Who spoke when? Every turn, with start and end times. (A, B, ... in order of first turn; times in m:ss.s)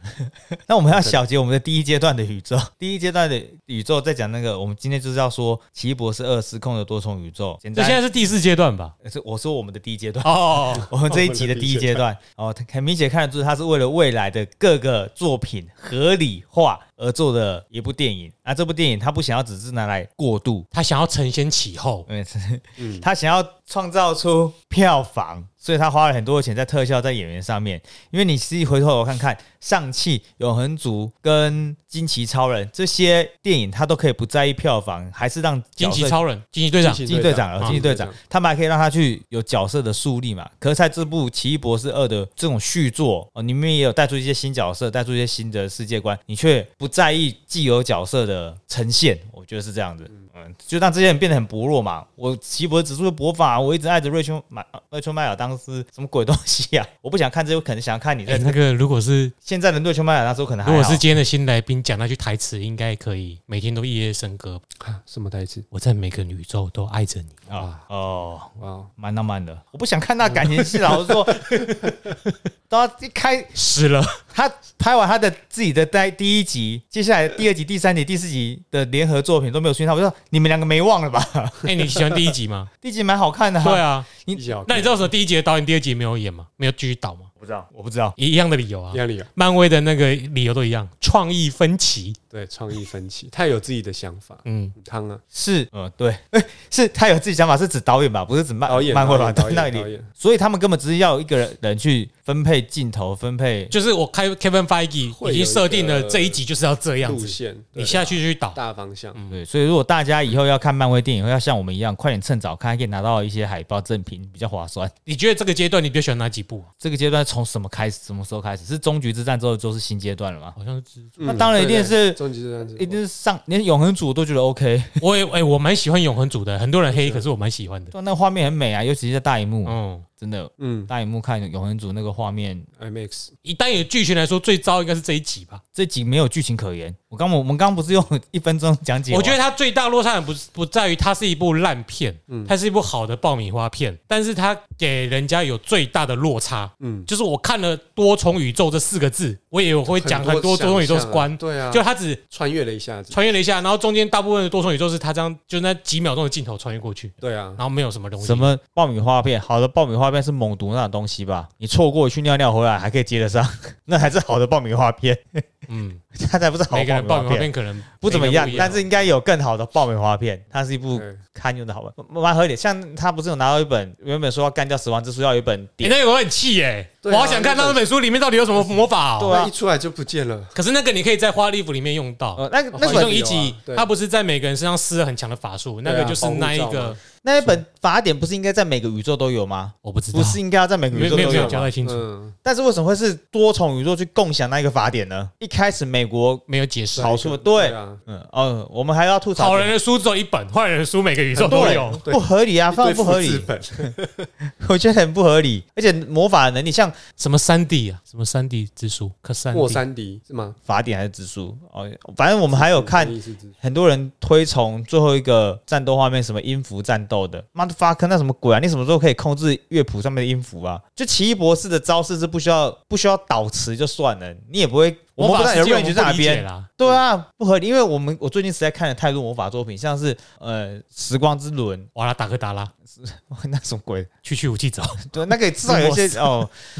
0:00.3-0:08.0 A
0:00.9-0:01.2 B
0:07.8-0:09.0 C
0:09.0-0:20.7 A
0:10.2-0:10.9 C
0:10.9-0:12.0 B
0:20.7-0:22.1 C
0:22.1-0:36.2 A
0:22.8-0:23.1 B
0:35.8-0:37.8 C
0:36.8-0:38.2 B
0:37.1-0:58.6 A
0:58.3-0:59.3 C
0:59.4-1:01.0 A
1:00.6-1:04.6 C
1:04.8-1:05.7 B
1:05.7-1:07.4 C
1:07.5-1:11.5 A
1:07.6-1:07.8 B
1:08.6-1:08.9 B
1:11.4-1:12.3 C
1:12.7-1:13.5 A
1:13.6-1:14.2 C
1:14.3-1:21.8 A
1:21.6-1:22.7 C
1:22.8-1:24.4 A
1:23.6-1:24.1 C
1:24.3-1:25.1 B
1:24.7-1:27.3 C
1:27.4-1:28.2 A
1:28.2-1:32.2 C
1:28.9-1:29.3 B
1:32.3-1:35.2 B
1:34.4-1:34.7 C
1:35.3-1:43.7 A
1:38.7-1:40.1 B
1:43.7-1:48.6 C
1:45.1-1:46.4 B
1:47.0-1:49.2 B
1:49.3-1:54.9 A
1:55.1-1:56.7 C
1:56.8-2:00.6 A
2:00.6-2:01.2 C
2:01.2-2:03.0 B
2:01.2-2:02.2 A
2:02.8-2:05.0 A
2:05.0-2:07.9 C
2:06.9-2:07.3 B
2:07.9-2:12.7 A
2:09.7-2:10.0 C
2:10.6-2:10.9 B
2:12.8-2:13.3 B
2:13.4-2:15.6 C
2:15.8-2:19.4 A
2:19.1-2:32.2 C
2:22.3-2:22.6 B
2:26.8-2:27.1 B
2:29.9-2:33.2 B
2:33.1-2:38.5 C
2:37.2-2:37.6 B
2:38.2-2:45.5 A
2:45.7-2:46.0 C
2:46.1-2:47.5 A
2:46.7-2:48.8 C
2:48.0-2:56.0 A
2:48.5-2:48.8 B
2:50.9-2:51.2 B
2:55.8-2:59.4 C
2:57.0-2:57.8 B
2:59.2-2:59.5 A
2:59.2-3:00.6 B
3:00.6-3:07.0 C
3:02.4-3:03.2 A
3:02.7-3:03.9 B
3:05.8-3:07.6 B
3:07.2-3:11.7 A
3:09.8-3:10.4 C
3:10.9-3:12.1 C
3:10.9-3:12.4 B
3:12.4-3:19.8 A
3:16.5-3:17.1 C
3:16.9-3:18.0 B
3:19.4-3:22.0 C
3:21.3-3:24.3 B
3:21.4-3:23.9 A
3:24.4-3:27.0 A
3:27.2-3:29.8 C
3:29.5-3:30.6 B
3:30.7-3:51.9 A
3:32.5-3:33.5 B
3:45.2-3:46.7 C
3:52.0-3:52.7 C
3:53.0-3:54.1 A
3:54.2-3:56.4 C
3:55.1-3:56.5 A